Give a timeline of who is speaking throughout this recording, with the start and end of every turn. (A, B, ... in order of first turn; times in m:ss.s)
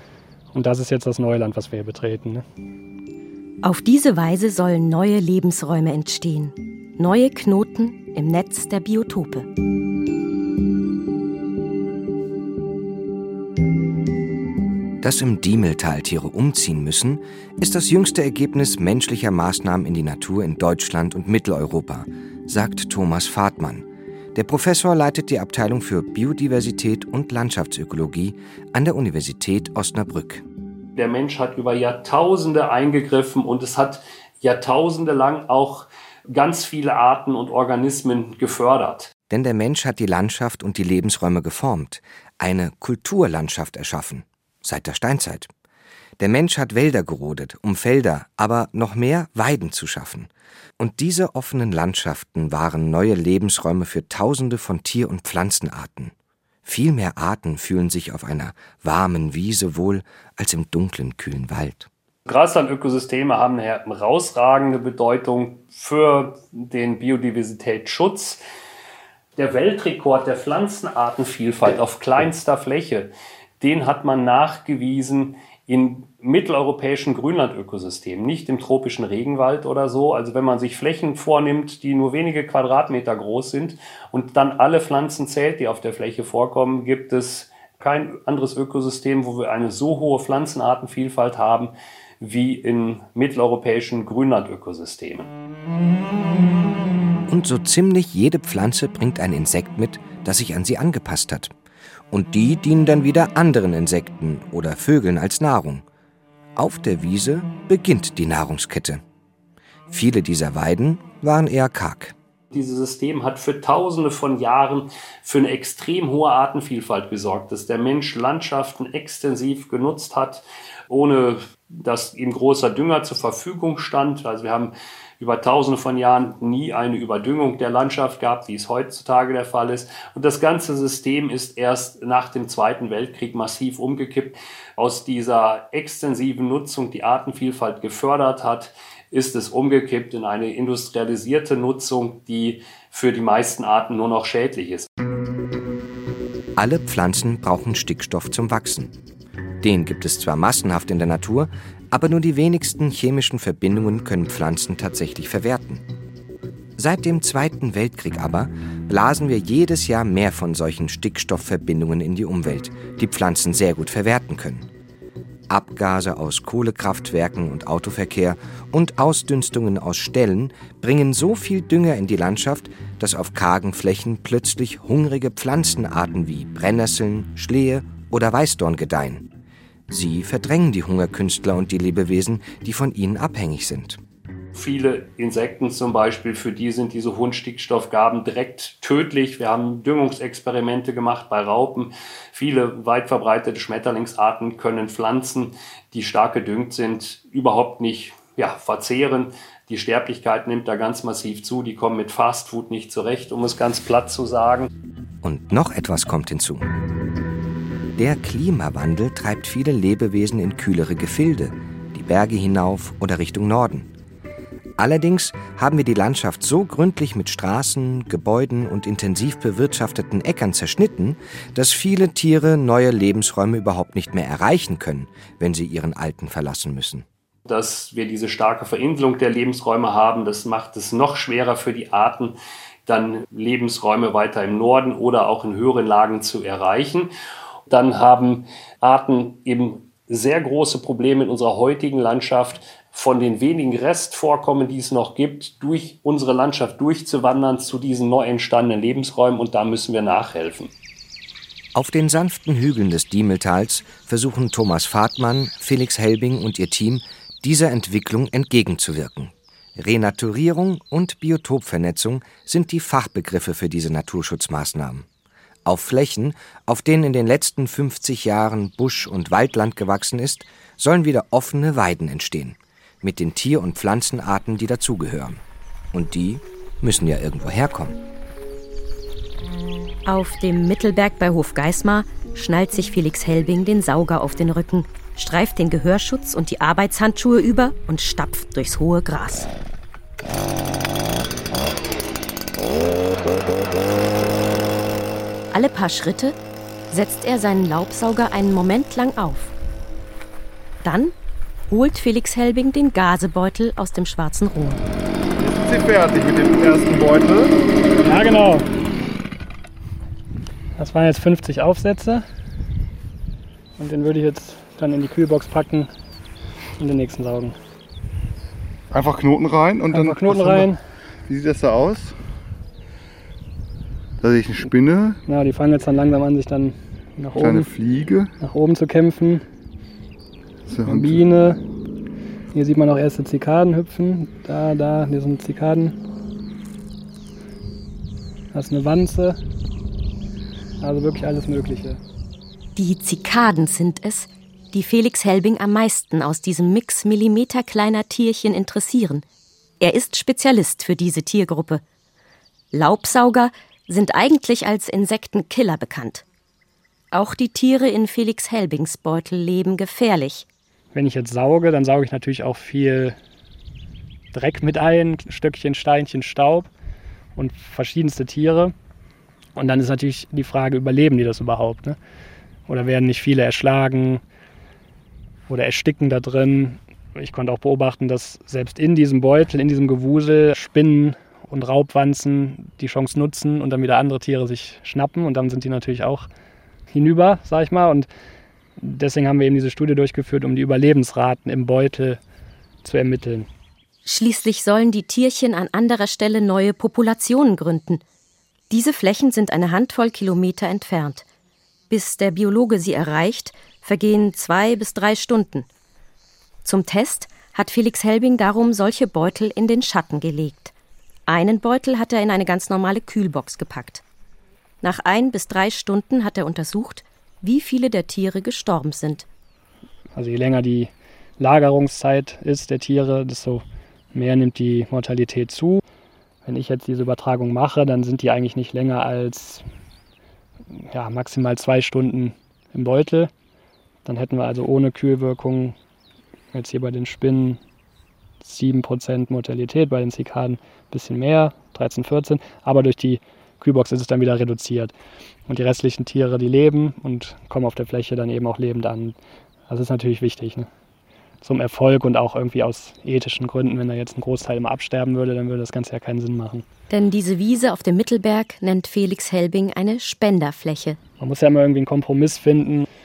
0:00.5-0:02.4 A
0:03.6-0:09.5 B
0:15.0-0:30.4 C
0:31.0-0:39.1 D
0:39.3-0:45.5 C
0:46.2-0:56.1 C
0:56.6-1:01.9 C
1:02.3-1:08.4 D
1:09.4-1:35.3 D
1:37.3-1:41.5 C
1:42.1-1:45.8 C
1:46.6-1:49.0 C
1:49.9-1:52.2 C
1:52.5-2:24.9 D
2:26.6-2:28.9 C
2:29.6-2:35.8 C
2:36.8-2:44.7 C
2:45.5-2:59.2 C
2:59.9-3:04.0 C
3:04.5-3:24.7 D
3:25.2-3:26.7 C
3:28.0-3:33.9 C
3:34.8-3:47.1 C
3:47.5-3:52.4 D
3:52.9-3:57.1 D
3:57.7-4:10.7 D
4:11.7-4:25.1 C
4:25.6-4:35.4 C
4:35.9-4:38.0 C
4:40.1-4:49.5 B
4:55.5-4:56.4 B
4:56.9-4:59.5 B
5:00.8-5:01.1 B
5:01.7-5:04.8 B
5:05.4-5:07.6 E
5:08.0-5:08.7 A
5:10.8-5:12.2 A
5:13.8-5:15.9 A
5:16.8-5:17.6 A
5:18.9-5:20.7 E
5:19.9-5:20.8 A
5:21.3-5:22.2 E
5:24.2-5:25.2 E
5:25.3-5:27.7 A
5:27.4-5:28.3 E
5:28.4-5:29.4 A
5:30.7-5:31.3 E
5:30.9-5:31.6 A
5:32.5-5:36.0 A
5:38.5-5:39.4 A
5:40.8-5:42.0 A
5:42.8-5:49.2 B
5:49.8-5:51.8 B
5:52.7-5:56.2 B
5:57.1-6:00.5 B
6:00.9-6:03.2 A
6:04.3-6:06.7 A
6:07.4-6:08.7 A
6:09.6-6:12.0 A
6:12.7-6:14.2 A
6:15.5-6:26.3 A
6:26.9-6:28.1 A
6:28.8-6:32.2 A
6:32.8-6:33.5 A
6:34.0-6:38.0 B
6:38.7-6:41.2 B
6:41.9-6:45.7 B
6:46.6-6:50.7 B
6:51.3-6:54.0 B
6:54.8-6:59.2 B
7:00.2-7:05.8 A
7:06.4-7:09.6 A
7:10.9-7:13.3 A
7:14.1-7:15.8 A
7:16.5-7:17.6 A
7:18.4-7:24.9 A
7:25.5-7:29.2 A
7:29.7-7:30.7 A
7:31.4-7:36.6 A
7:36.9-7:41.0 B
7:41.2-7:42.9 A